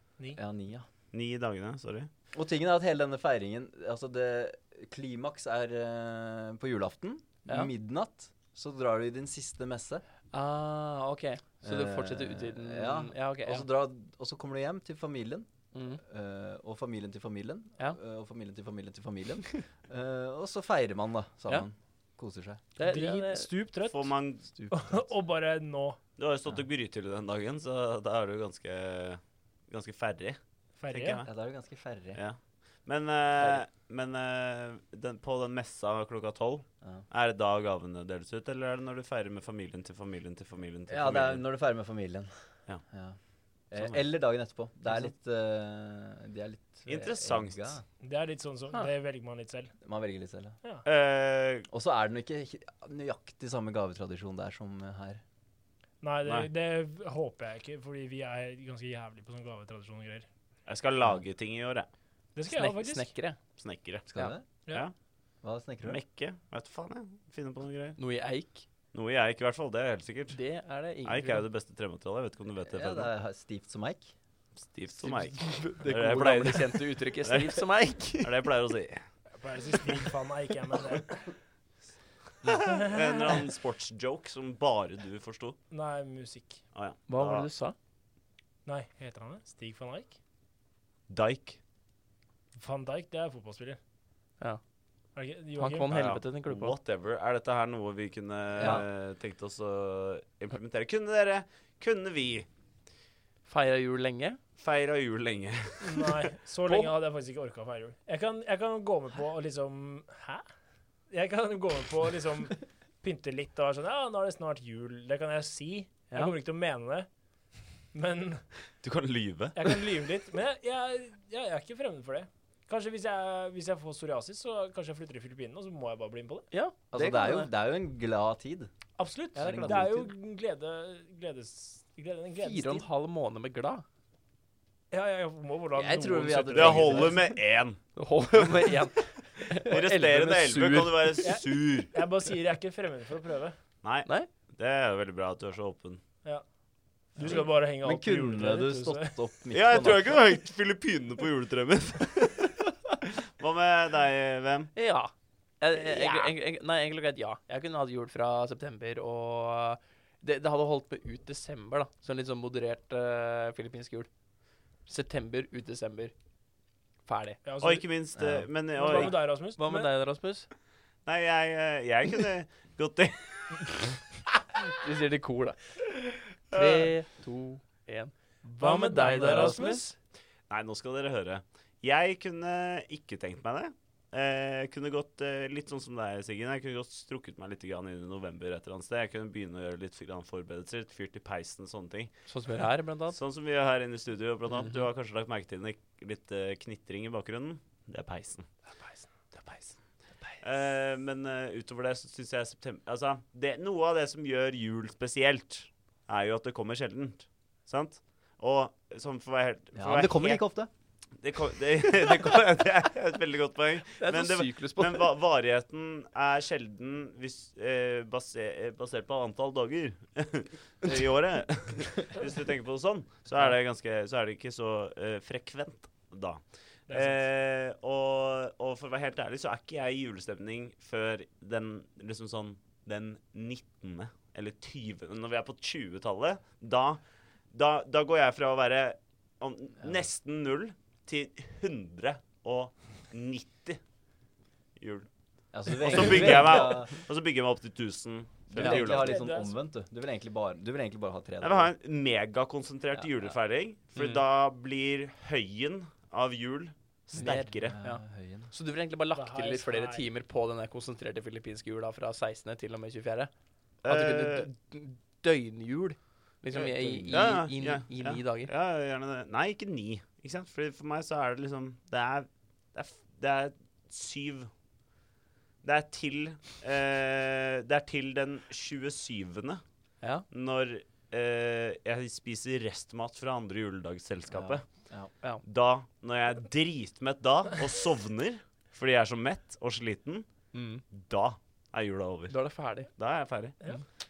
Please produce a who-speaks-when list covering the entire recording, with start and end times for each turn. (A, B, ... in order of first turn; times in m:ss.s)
0:00.4-0:00.8 A
0:01.1-0:02.1 B
0:02.3-0:10.0 A
0:10.3-0:13.6 C
0:11.6-0:15.5 A
0:15.7-0:16.0 C
0:16.0-0:22.6 A
0:22.8-0:23.5 C
0:22.8-0:24.1 D
0:23.9-0:24.5 B
0:24.5-0:25.0 A
0:24.7-0:26.0 D
0:26.2-0:31.3 B
0:30.8-0:31.3 D
0:31.2-0:32.2 A
0:32.1-0:41.4 B
0:33.4-0:33.6 C
0:40.9-0:42.3 A
0:42.9-0:43.2 A
0:43.7-0:47.8 A
0:43.8-0:44.0 B
0:46.8-0:47.8 B
0:48.0-0:49.7 D
0:49.8-0:50.6 A
0:50.8-0:51.7 B
0:51.7-0:55.2 A
0:56.0-1:00.3 D
1:00.6-1:01.9 B
1:02.3-1:03.1 D
1:02.5-1:03.4 C
1:03.6-1:04.0 B
1:04.1-1:04.4 A
1:05.4-1:06.0 A
1:05.8-1:08.0 B
1:08.0-1:08.6 C
1:08.9-1:10.4 B
1:10.3-1:11.4 C
1:11.0-1:13.1 B
1:12.7-1:14.1 A
1:14.6-1:17.6 B
1:15.0-1:18.4 C
1:18.2-1:19.0 B
1:19.4-1:21.3 D
1:22.5-1:25.6 B
1:22.6-1:23.4 D
1:25.7-1:26.6 D
1:26.7-1:27.5 B
1:27.1-1:27.7 C
1:28.6-1:30.2 D
1:31.1-1:31.6 B
1:32.6-1:33.8 D
1:35.2-1:35.9 D
1:35.6-1:36.8 C
1:35.9-1:42.5 B
1:38.6-1:38.8 A
1:43.4-1:44.4 C
1:44.6-1:46.2 B
1:45.8-1:50.4 D
1:51.1-1:57.1 D
1:57.9-1:58.5 D
1:58.8-1:59.7 B
1:59.5-2:06.5 D
2:06.5-2:07.5 C
2:06.9-2:08.7 A
2:09.0-2:12.8 D
2:09.3-2:10.1 A
2:09.4-2:09.8 C
2:12.4-2:13.8 C
2:14.9-2:17.2 D
2:15.7-2:17.2 A
2:16.5-2:17.8 B
2:18.0-2:21.4 C
2:19.6-2:21.9 B
2:21.2-2:23.6 D
2:23.8-2:26.0 B
2:27.1-2:29.1 D
2:27.2-2:27.4 B
2:27.2-2:30.2 A
2:29.5-2:32.6 B
2:33.4-2:34.7 B
2:34.7-2:44.1 C
2:35.8-2:36.3 B
2:44.9-2:46.1 C
2:47.0-2:47.4 C
2:47.4-2:47.8 D
2:47.6-2:49.2 B
2:48.1-2:48.5 A
2:48.7-2:49.9 D
2:49.0-2:50.5 C
2:51.0-2:54.0 B
2:54.6-2:55.6 C
2:56.5-2:56.9 B
2:56.5-3:00.0 C
2:58.6-2:59.9 D
3:00.5-3:12.1 B
3:12.3-3:13.2 C
3:13.1-3:18.5 B
3:14.5-3:14.8 C
3:19.4-3:19.7 B
3:20.4-3:30.4 B
3:29.7-3:30.7 A
3:31.2-3:57.0 B
3:33.9-3:35.1 C
3:46.9-3:47.2 D
3:57.5-4:03.8 B
4:04.8-4:05.1 B
4:05.5-4:06.9 A
4:05.7-4:09.2 B
4:08.5-4:11.7 A
4:08.6-4:09.0 C
4:08.8-4:09.5 D
4:11.4-4:17.8 B
4:14.0-4:14.2 C
4:17.1-4:23.3 C
4:17.2-4:18.5 A
4:19.1-4:20.1 D
4:23.8-4:24.5 B
4:23.8-4:28.5 C
4:26.5-4:27.4 A
4:27.1-4:34.5 B
4:35.6-4:39.6 B
4:40.3-4:44.6 B
4:44.3-4:45.1 A
4:45.4-4:50.3 B
4:50.5-4:50.8 C
4:50.9-4:52.4 B
4:52.3-4:52.9 C
4:52.9-4:53.6 B